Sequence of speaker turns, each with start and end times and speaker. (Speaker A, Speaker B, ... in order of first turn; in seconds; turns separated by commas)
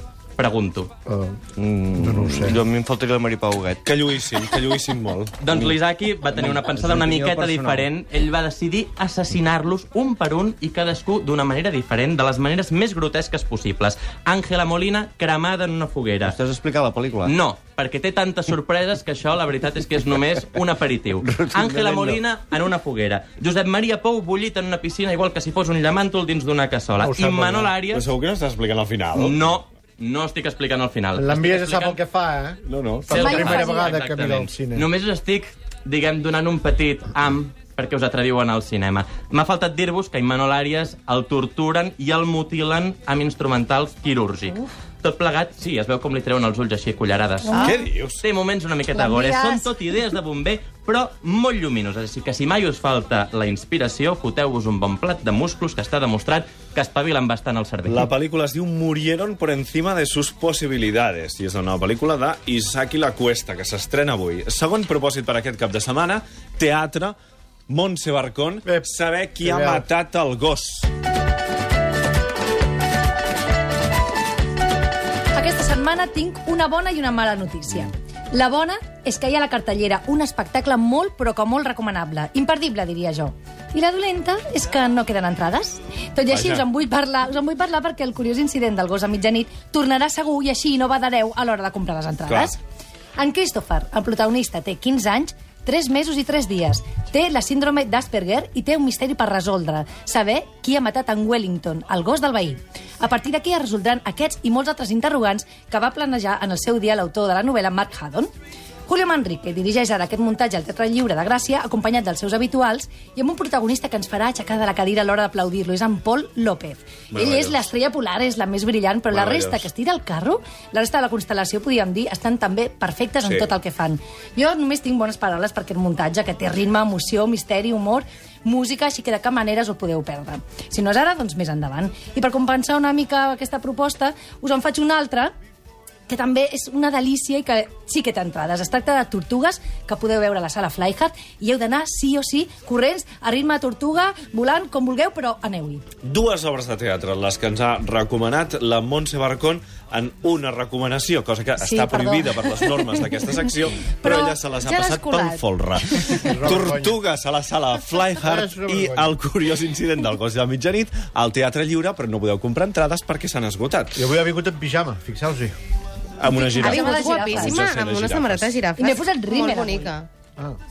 Speaker A: 0.4-0.9, Speaker B: 1.1-1.4, Speaker C: 1.6-3.8, Speaker B: 2.0-2.6, Speaker D: 3.9-5.4, Speaker A: 5.4-16.4, Speaker C: 5.5-5.8, Speaker C: 6.3-7.9, Speaker C: 16.2-17.3, Speaker A: 17.2-28.1, Speaker C: 21.2-22.2, Speaker B: 27.0-27.8, Speaker D: 27.9-29.4, Speaker A: 29.1-32.0, Speaker B: 31.2-34.9, Speaker D: 32.7-33.2, Speaker A: 33.1-47.7, Speaker E: 33.1-33.9, Speaker E: 47.5-47.8, Speaker D: 47.6-48.2, Speaker A: 48.2-58.0, Speaker E: 49.1-49.6, Speaker D: 57.9-67.2, Speaker D: 67.7-70.9, Speaker B: 68.6-69.9, Speaker E: 75.3-92.6, Speaker D: 86.3-86.6, Speaker D: 92.3-92.5, Speaker E: 93.2-108.3, Speaker E: 108.9-135.3, Speaker D: 117.1-117.6, Speaker D: 119.1-119.7, Speaker D: 123.2-123.5, Speaker E: 136.1-145.8, Speaker D: 146.0-164.0, Speaker E: 151.6-152.1, Speaker F: 151.8-152.1, Speaker F: 154.0-155.4, Speaker B: 156.3-157.0, Speaker B: 158.1-159.2, Speaker B: 163.9-165.6, Speaker D: 166.2-166.8, Speaker E: 166.3-167.7, Speaker F: 166.5-170.1, Speaker D: 167.4-168.6, Speaker E: 168.8-169.9